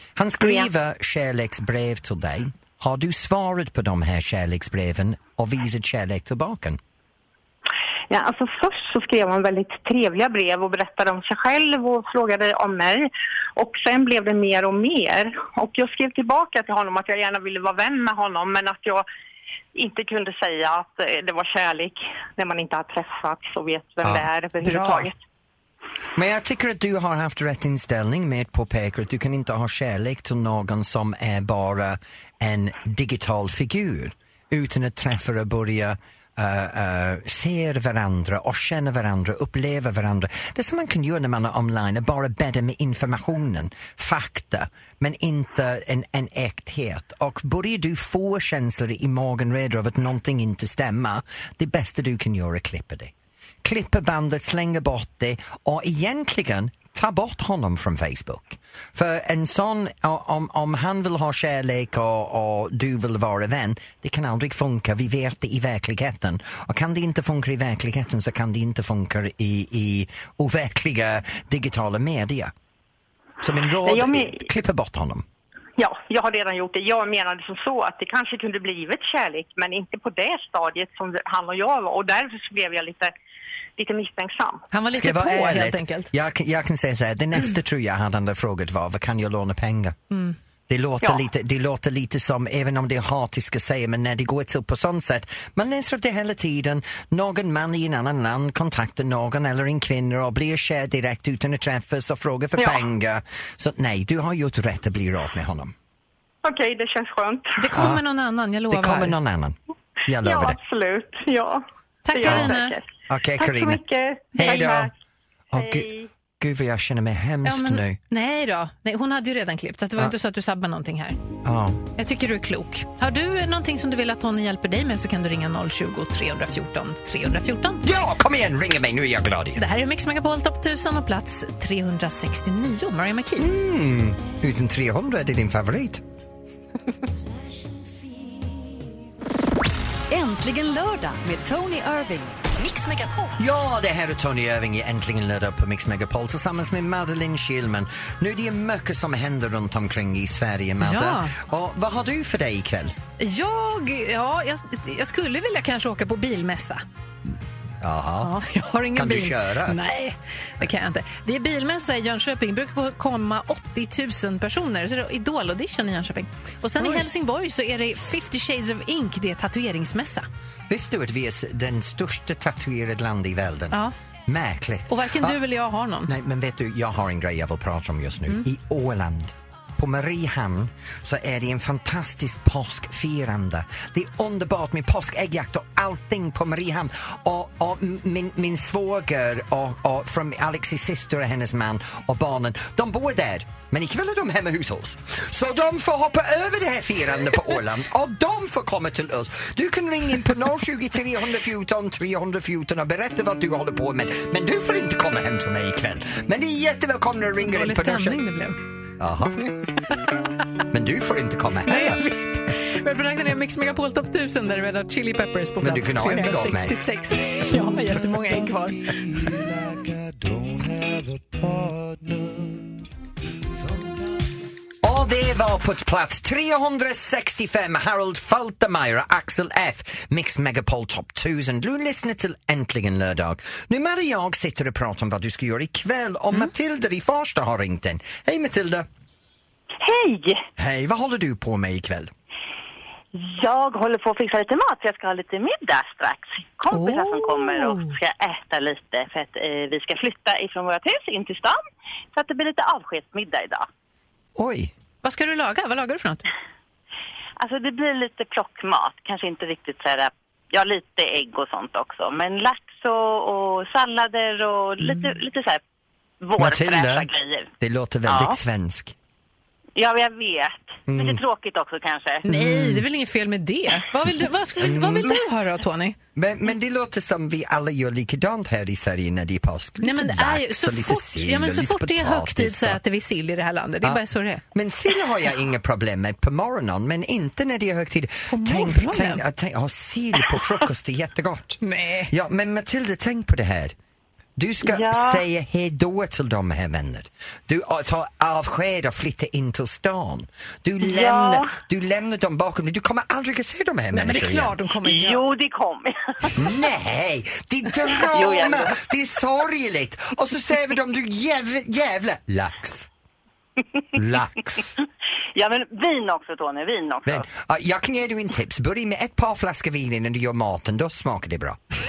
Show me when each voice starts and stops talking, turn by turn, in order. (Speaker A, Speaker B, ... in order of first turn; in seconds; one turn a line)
Speaker A: 0.2-6.8
Speaker B: 8.1-19.1
Speaker B: 19.8-25.2
Speaker A: 24.0-25.1
Speaker A: 26.2-53.1
Speaker A: 53.6-72.5
Speaker A: 73.4-75.2
Speaker B: 73.8-74.4
Speaker B: 75.8-83.1
Speaker B: 83.8-84.7
Speaker C: 84.7-86.1
Speaker A: 84.9-90.0
Speaker C: 90.1-90.4
Speaker A: 90.7-105.7
Speaker B: 106.4-107.7
Speaker C: 107.6-109.2
Speaker A: 107.7-108.0
Speaker A: 108.7-110.6
Speaker B: 110.2-112.8
Speaker C: 112.0-112.8
Speaker A: 112.2-112.5
Speaker A: 113.1-113.8
Speaker B: 113.4-114.9
Speaker A: 114.3-114.9
Speaker A: 115.5-118.0
Speaker B: 115.6-116.0
Speaker C: 117.4-121.2
Speaker A: 121.4-121.8
Speaker C: 122.0-127.9
Speaker A: 127.8-129.6
Speaker C: 129.6-133.5
Speaker A: 133.4-136.0
Speaker D: 140.1-143.4
Speaker A: 143.4-152.9
Speaker C: 150.8-151.4
Speaker C: 153.2-156.8
Speaker A: 157.8-158.3
Speaker C: 158.2-170.3
Speaker A: 158.9-159.8
Speaker A: 166.8-167.1
Speaker A: 170.7-175.4
Speaker C: 174.9-176.1
Speaker A: 176.1-208.2
Speaker C: 207.4-208.6
Speaker A: 209.0-209.5
Speaker A: 210.7-212.0
Speaker C: 211.7-219.4
Speaker A: 215.6-216.8
Speaker A: 217.9-218.4
Speaker A: 219.0-222.7
Speaker A: 224.8-238.9
Speaker E: 239.8-240.5
Speaker A: 240.6-242.1
Speaker E: 243.1-251.6
Speaker C: 246.7-247.9
Speaker E: 252.1-253.7
Speaker A: 254.4-254.7
Speaker C: 255.0-256.2
Speaker E: 257.4-265.6
Speaker E: 266.2-267.5
Speaker A: 266.4-267.1
Speaker A: 267.6-268.9
Speaker E: 268.1-268.4
Speaker E: 269.8-272.3
Speaker A: 270.9-271.2
Speaker C: 272.3-276.0
Speaker A: 272.3-272.9
Speaker A: 274.6-275.2
Speaker A: 276.1-282.8
Speaker C: 279.8-284.4
Speaker A: 283.8-293.8
Speaker C: 288.3-289.2
Speaker C: 291.6-292.1
Speaker A: 294.4-304.6
Speaker E: 294.7-295.2
Speaker E: 300.8-301.5
Speaker C: 303.9-305.2
Speaker E: 304.8-306.5
Speaker A: 306.4-312.9
Speaker E: 307.9-308.8
Speaker A: 313.9-314.7
Speaker E: 315.4-317.2
Speaker A: 317.1-321.6